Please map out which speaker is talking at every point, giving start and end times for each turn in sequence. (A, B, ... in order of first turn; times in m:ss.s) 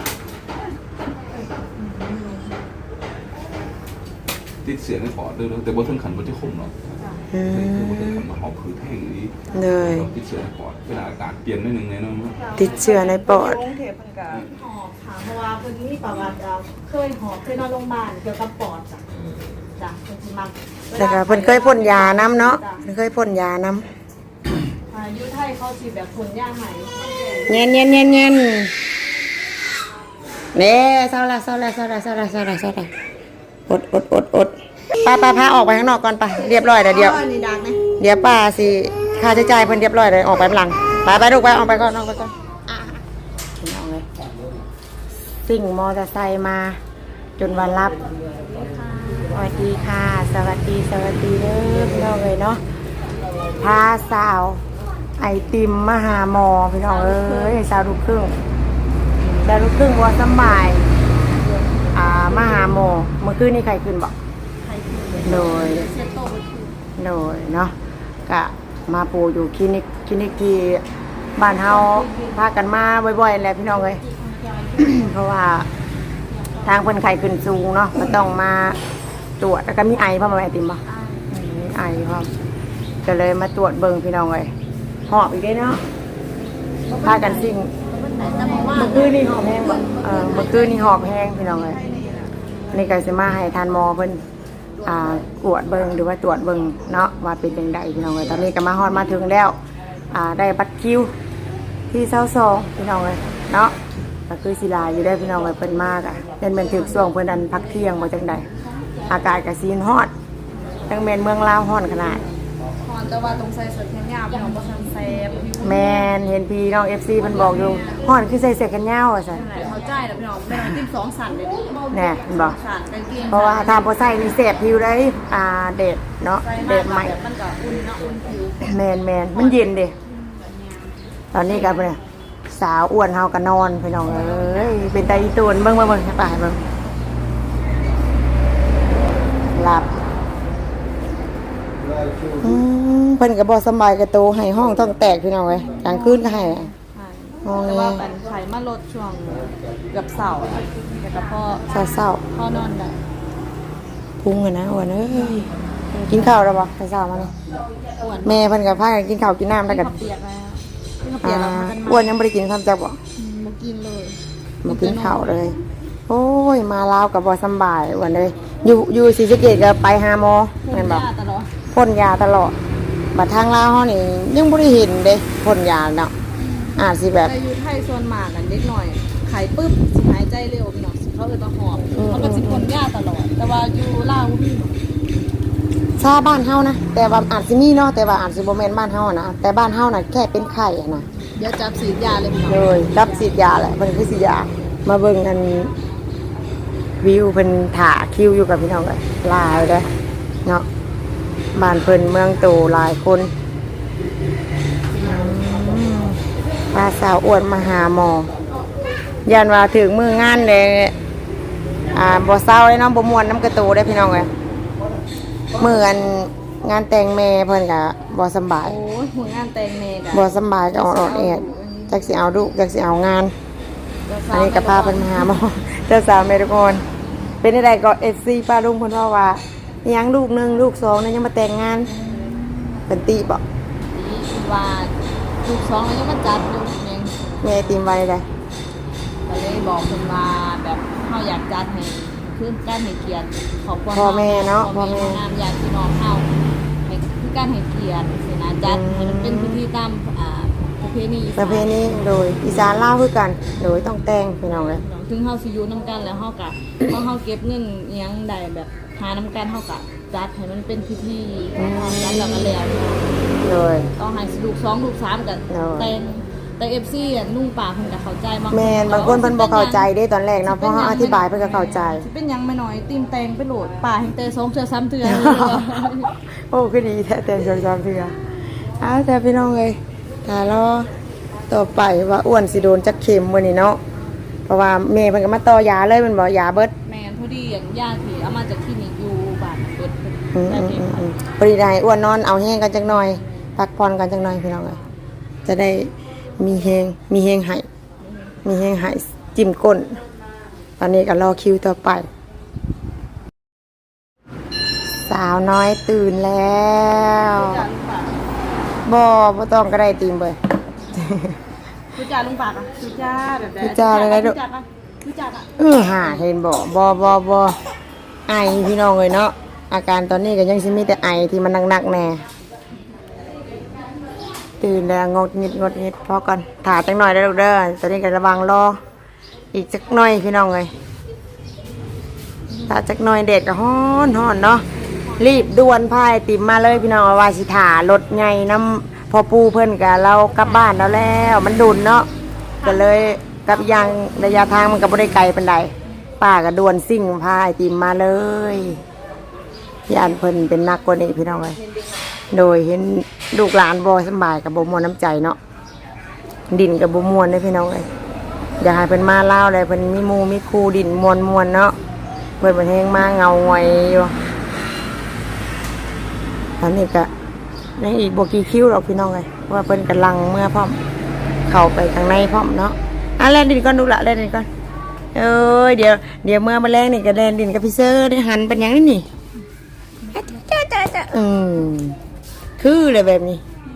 0:01.3-0:02.6 A
0:04.6-0:06.9 B
0:07.3-0:08.2 C
0:07.5-0:12.4 B
0:09.5-0:10.1 C
0:12.4-0:19.0 A
0:12.6-0:13.6 C
0:19.8-0:22.8 A
0:21.0-0:23.9 C
0:24.9-0:27.4 A
0:27.5-0:28.7 C
0:30.5-0:32.9 C
0:33.7-0:37.2 C
0:36.8-0:37.8 A
0:38.0-0:43.0 C
0:43.6-0:44.0 C
0:45.5-0:46.8 C
0:47.4-0:48.0 C
0:49.3-0:52.6 C
0:53.6-0:54.6 C
0:55.2-0:58.3 C
0:56.9-0:57.6 A
0:59.4-1:00.8 C
1:01.9-1:04.2 C
1:04.6-1:06.7 A
1:05.2-1:05.9 C
1:07.0-1:07.7 C
1:08.3-1:10.8 C
1:11.4-1:14.0 C
1:11.6-1:12.4 A
1:14.0-1:15.0 A
1:14.8-1:15.7 C
1:16.6-1:18.8 C
1:19.4-1:22.3 C
1:23.0-1:24.5 C
1:25.1-1:25.8 C
1:26.9-1:32.3 A
1:27.0-1:27.7 C
1:28.7-1:31.8 C
1:32.7-1:34.2 C
1:34.8-1:39.6 C
1:40.1-1:41.1 C
1:41.9-1:43.8 C
1:44.3-1:48.5 C
1:49.1-1:50.1 C
1:50.9-1:52.3 C
1:52.8-1:56.1 A
1:55.6-1:59.4 C
1:57.2-1:58.1 A
1:59.3-2:04.1 A
2:01.9-2:02.6 C
2:03.3-2:07.2 C
2:06.4-2:08.6 A
2:08.6-2:09.9 C
2:10.3-2:10.8 A
2:11.3-2:16.6 C
2:11.5-2:11.8 A
2:14.1-2:15.0 A
2:19.6-2:19.9 C
2:22.4-2:26.7 C
2:25.6-2:31.7 A
2:27.4-2:28.0 C
2:31.7-2:32.2 C
2:32.3-2:33.0 A
2:34.2-2:35.5 C
2:35.9-2:36.4 A
2:36.1-2:37.3 C
2:38.0-2:38.5 A
2:38.2-2:40.0 C
2:39.7-2:42.1 A
2:41.2-2:43.0 C
2:43.2-2:45.3 A
2:44.6-2:51.1 C
2:50.7-2:51.5 A
2:51.7-2:52.6 C
2:53.1-2:56.1 C
2:56.4-3:04.7 A
2:56.8-2:57.3 C
3:02.0-3:02.7 C
3:06.0-3:11.1 C
3:11.4-3:13.3 A
3:12.5-3:15.7 C
3:17.0-3:19.9 C
3:21.5-3:23.3 C
3:25.0-3:26.2 C
3:26.7-3:28.3 C
3:29.3-3:30.9 C
3:31.9-3:34.3 C
3:35.6-3:38.8 C
3:38.6-3:42.1 A
3:40.1-3:43.3 C
3:44.1-3:45.4 A
3:44.3-3:46.8 C
3:47.4-3:51.9 C
3:51.9-3:52.8 A
3:52.9-3:53.4 C
3:53.9-3:57.5 A
3:57.4-3:58.3 C
3:59.3-4:06.3 A
4:03.9-4:05.2 C
4:06.9-4:12.0 A
4:08.6-4:09.6 C
4:11.4-4:14.8 C
4:14.5-4:23.1 A
4:21.6-4:22.5 C
4:23.4-4:23.9 C
4:24.0-4:29.9 A
4:25.5-4:25.9 C
4:28.5-4:32.0 C
4:30.4-4:36.1 A
4:35.0-4:38.2 C
4:38.8-4:40.9 C
4:41.5-4:43.8 C
4:44.5-4:46.7 C
4:46.9-4:51.0 A
4:50.3-4:54.8 C
4:55.4-4:57.7 C
4:58.4-5:00.0 C
5:00.8-5:02.1 C
5:05.1-5:07.6 C
5:07.3-5:08.2 A
5:08.9-5:10.4 C
5:10.9-5:11.4 C
5:11.9-5:15.5 A
5:13.6-5:14.4 C
5:15.6-5:17.6 C
5:18.3-5:22.2 C
5:24.6-5:28.8 C
5:29.5-5:30.7 C
5:32.7-5:34.6 C
5:34.7-5:35.6 A
5:35.2-5:42.1 C
5:42.6-5:48.8 C
5:43.5-5:43.8 A
5:49.9-5:51.6 C
5:52.3-5:55.4 C
5:56.5-5:57.9 C
5:58.6-6:01.8 C
6:02.4-6:04.2 C
6:06.6-6:07.1 C
6:07.8-6:10.8 C
6:11.5-6:14.5 C
6:15.1-6:19.1 C
6:20.2-6:22.0 C
6:22.6-6:23.4 C